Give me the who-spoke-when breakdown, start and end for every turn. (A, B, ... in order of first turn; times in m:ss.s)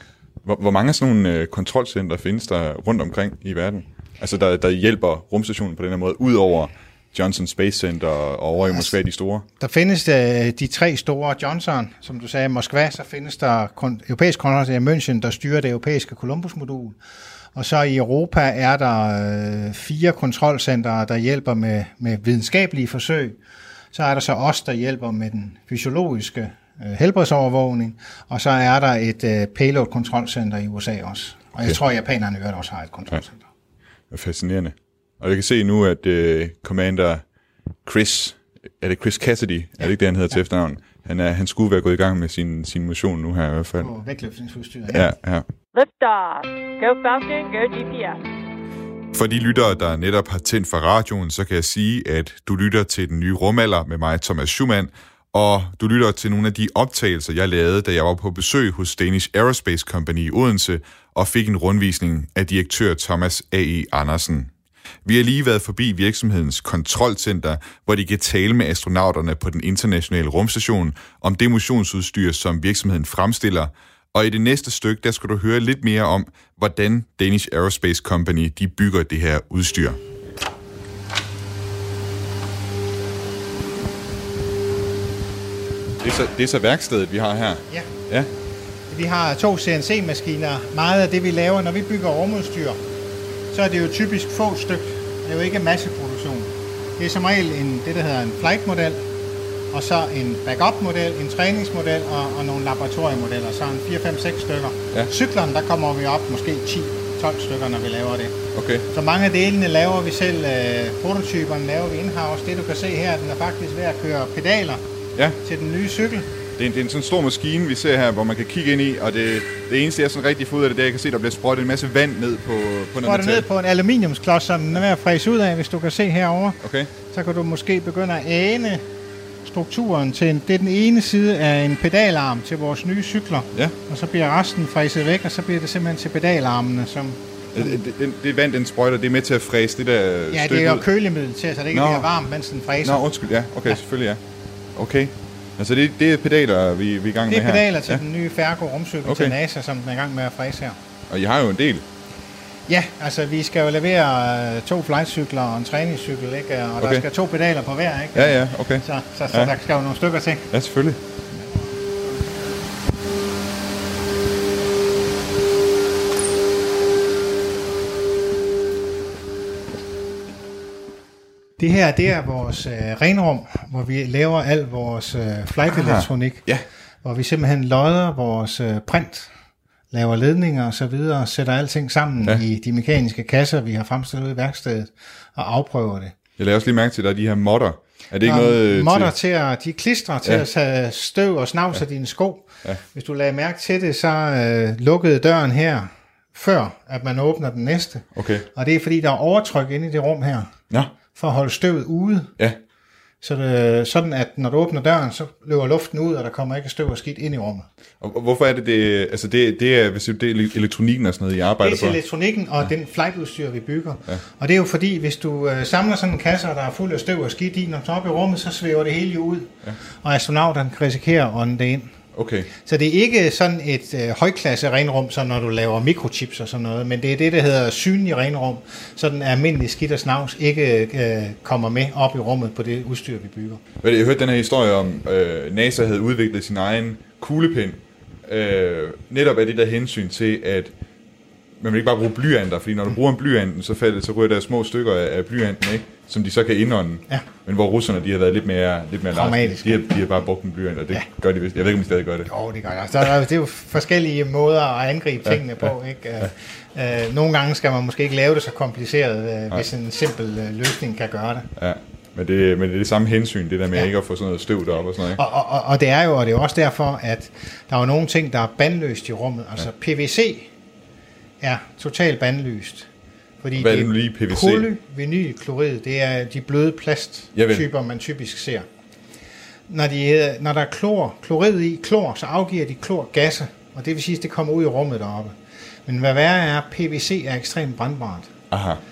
0:00.4-0:09.4 A
0:09.6-0:17.0 B
0:17.5-0:23.4 B
0:23.9-0:33.4 B
0:34.1-0:37.2 A
0:37.8-0:43.9 A
0:43.8-0:45.1 B
0:44.9-0:45.4 A
0:45.7-0:48.2 C
0:49.1-1:04.5 A
1:05.0-1:20.0 A
1:26.0-1:28.3 A
1:28.9-1:32.8 B
1:33.5-1:39.0 B
1:39.7-1:48.4 B
1:48.5-1:48.9 A
1:48.9-1:54.8 B
1:55.4-1:56.3 B
1:56.6-2:03.4 A
2:03.0-2:08.9 B
2:06.6-2:06.9 A
2:09.4-2:17.8 B
2:17.5-2:20.8 A
2:20.3-2:23.0 B
2:21.7-2:22.1 A
2:22.8-2:24.2 A
2:24.8-2:28.0 A
2:27.3-2:30.8 B
2:29.0-2:29.4 A
2:31.1-2:31.9 A
2:32.7-2:40.5 B
2:36.8-2:37.0 A
2:38.2-2:39.5 A
2:40.5-2:41.0 A
2:41.3-2:42.6 B
2:51.6-2:56.5 B
2:55.7-2:56.6 A
2:57.0-2:59.3 B
2:59.9-3:06.2 B
3:06.4-3:09.1 A
3:08.2-3:20.5 B
3:18.2-3:18.5 A
3:21.1-3:22.3 B
3:23.2-3:27.7 B
3:28.0-3:32.0 A
3:31.6-3:41.9 B
3:42.1-3:42.5 A
3:42.6-3:53.6 B
3:53.8-4:00.7 A
4:01.6-4:12.3 A
4:09.1-4:09.9 B
4:12.3-4:21.5 B
4:21.6-4:25.2 A
4:25.1-4:30.5 B
4:31.4-4:32.9 B
4:33.4-4:38.7 B
4:33.6-4:34.7 A
4:37.3-4:37.7 A
4:39.7-4:48.3 B
4:48.5-4:48.8 A